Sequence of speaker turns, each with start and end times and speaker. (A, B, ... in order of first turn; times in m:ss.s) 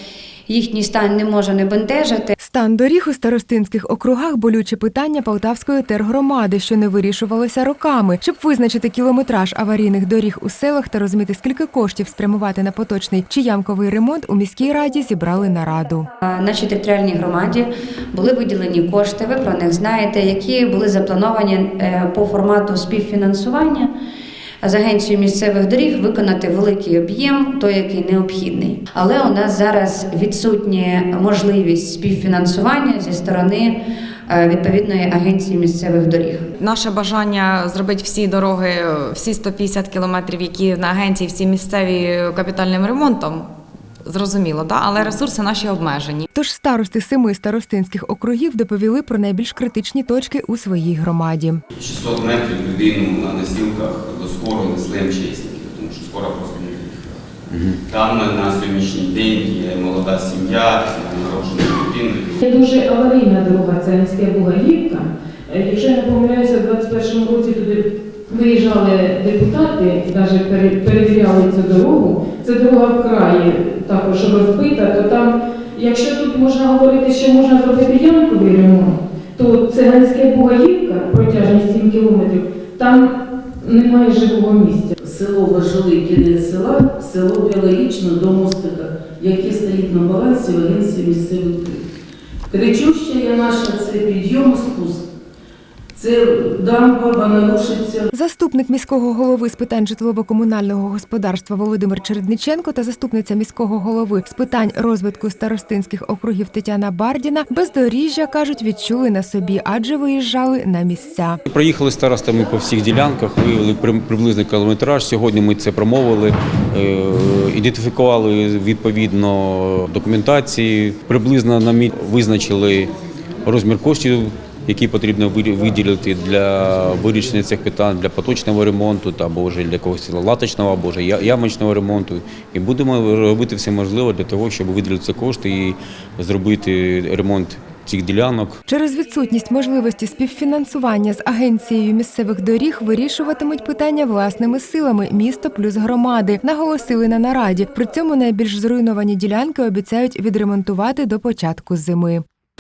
0:00.5-0:02.3 A
0:02.4-0:16.1 B
0:16.2-0:23.9 A
0:24.6-0:33.8 A
0:34.3-0:36.4 A
0:36.6-0:43.5 C
0:44.0-0:46.3 C
0:46.4-0:51.6 B
0:51.7-0:57.2 D
0:57.5-0:57.8 E
0:57.9-1:02.4 D
1:02.4-1:24.9 F
1:25.0-1:31.8 G
1:32.5-1:35.0 G
1:36.0-1:38.1 G
1:38.1-1:51.4 B
1:51.5-2:02.9 E
2:03.4-2:18.6 E
2:18.7-2:32.2 B